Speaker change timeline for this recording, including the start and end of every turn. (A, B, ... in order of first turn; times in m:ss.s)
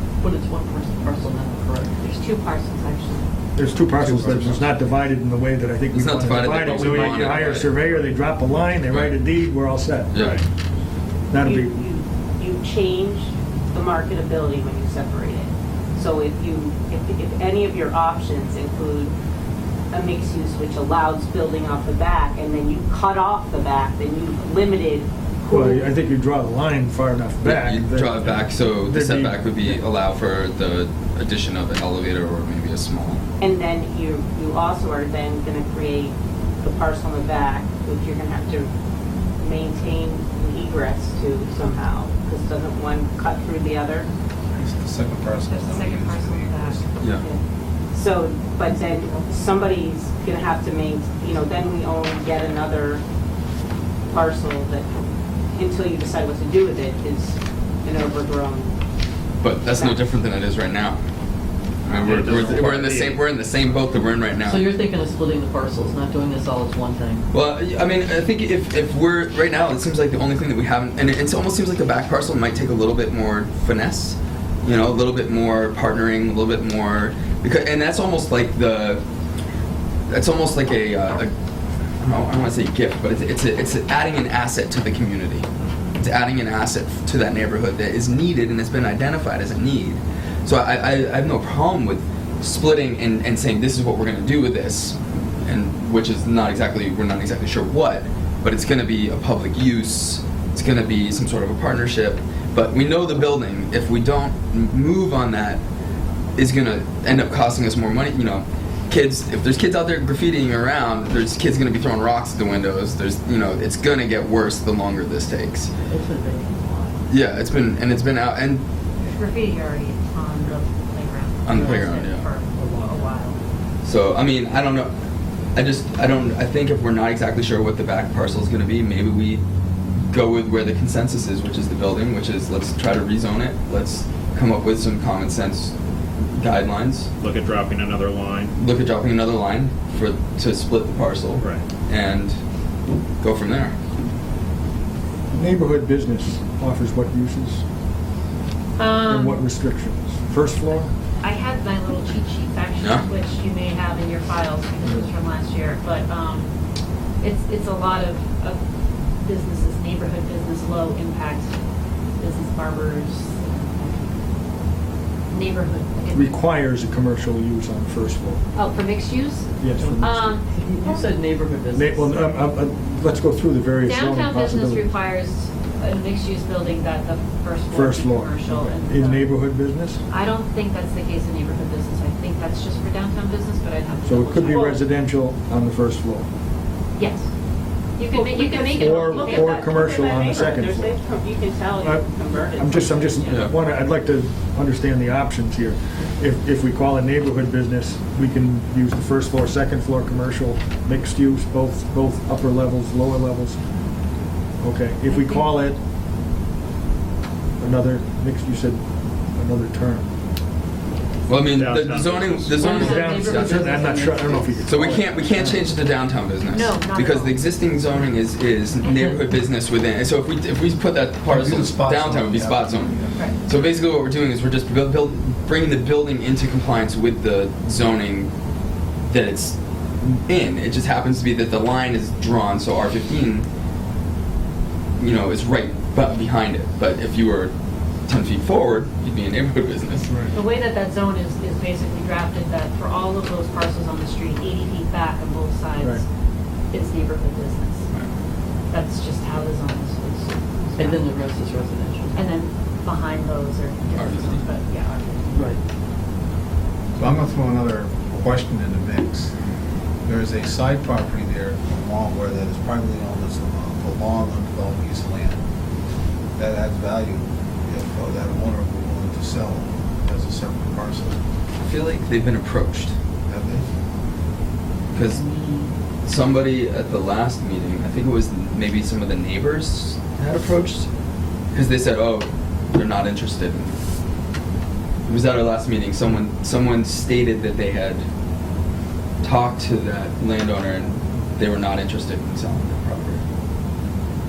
0:00.2-0:02.0 A
0:02.0-0:03.3 B
0:03.5-0:10.2 C
0:04.0-0:04.6 D
0:04.0-0:04.7 E
0:05.9-0:08.0 D
0:08.9-0:09.2 D
0:10.1-0:10.4 D
0:10.2-0:10.4 F
0:11.3-0:11.8 C
0:11.4-0:19.1 G
0:19.9-0:25.8 G
0:25.5-0:29.8 C
0:27.4-0:33.2 D
0:33.4-0:38.7 G
0:39.4-0:44.1 G
0:44.5-0:47.0 E
0:45.5-0:46.8 B
0:47.1-0:53.0 G
0:54.1-0:54.9 G
0:55.5-0:58.7 G
0:59.4-1:01.0 D
0:59.7-1:00.0 G
1:01.8-1:04.7 D
1:02.0-1:03.4 F
1:04.4-1:07.3 A
1:07.3-1:19.0 D
1:20.1-1:21.3 D
1:22.0-1:25.4 D
1:26.0-1:45.6 D
1:46.4-1:55.7 D
1:55.8-1:57.0 A
1:57.1-1:58.6 D
1:59.0-2:03.4 B
2:01.4-2:02.2 D
2:01.5-2:01.8 A
2:03.8-2:04.9 D
2:05.5-2:09.4 D
2:10.1-2:15.7 D
2:16.3-2:17.1 D
2:17.2-2:18.5 F
2:18.6-2:22.4 D
2:21.4-2:21.6 F
2:23.2-2:23.7 D
2:25.3-2:27.6 C
2:28.8-2:29.4 B
2:29.1-2:30.9 C
2:31.2-2:36.5 B
2:32.8-2:33.0 D
2:37.2-2:38.6 B
2:39.2-2:41.5 B
2:42.2-2:44.2 B
2:45.3-2:46.4 B
2:46.1-2:48.4 C
2:48.5-2:50.5 B
2:49.6-2:50.4 C
2:50.5-2:52.2 A
2:51.7-2:54.9 C
2:53.8-2:59.5 B
2:57.7-3:00.0 C
3:00.1-3:04.7 B
3:04.0-3:06.3 C
3:04.5-3:04.8 G
3:07.0-3:07.3 B
3:08.0-3:09.6 B
3:08.1-3:13.2 G
3:08.7-3:11.0 C
3:11.8-3:23.6 C
3:13.2-3:13.5 D
3:24.6-3:25.8 C
3:25.0-3:25.7 B
3:27.6-3:30.1 C
3:30.9-3:31.4 B
3:31.3-3:33.8 D
3:31.5-3:32.9 F
3:32.6-3:34.7 A
3:32.6-3:35.5 C
3:34.6-3:48.3 D
3:36.4-3:37.4 B
3:38.8-3:39.1 B
3:41.2-3:43.3 E
3:43.1-3:43.4 B
3:49.1-3:53.4 D
3:55.0-3:57.5 D
3:58.1-4:00.1 D
4:00.0-4:00.4 C
4:00.3-4:06.0 B
4:06.7-4:07.8 B
4:08.7-4:11.1 B
4:10.8-4:12.3 A
4:12.1-4:15.5 B
4:13.9-4:14.4 D
4:15.3-4:15.6 A
4:17.0-4:19.3 E
4:20.0-4:25.4 E
4:26.4-4:31.2 E
4:31.6-4:32.9 D
4:33.2-4:33.7 E
4:34.9-4:35.2 D
4:35.1-4:35.6 B
4:36.0-4:40.9 D
4:41.5-4:43.7 D
4:45.1-4:48.0 D
4:49.2-4:53.2 D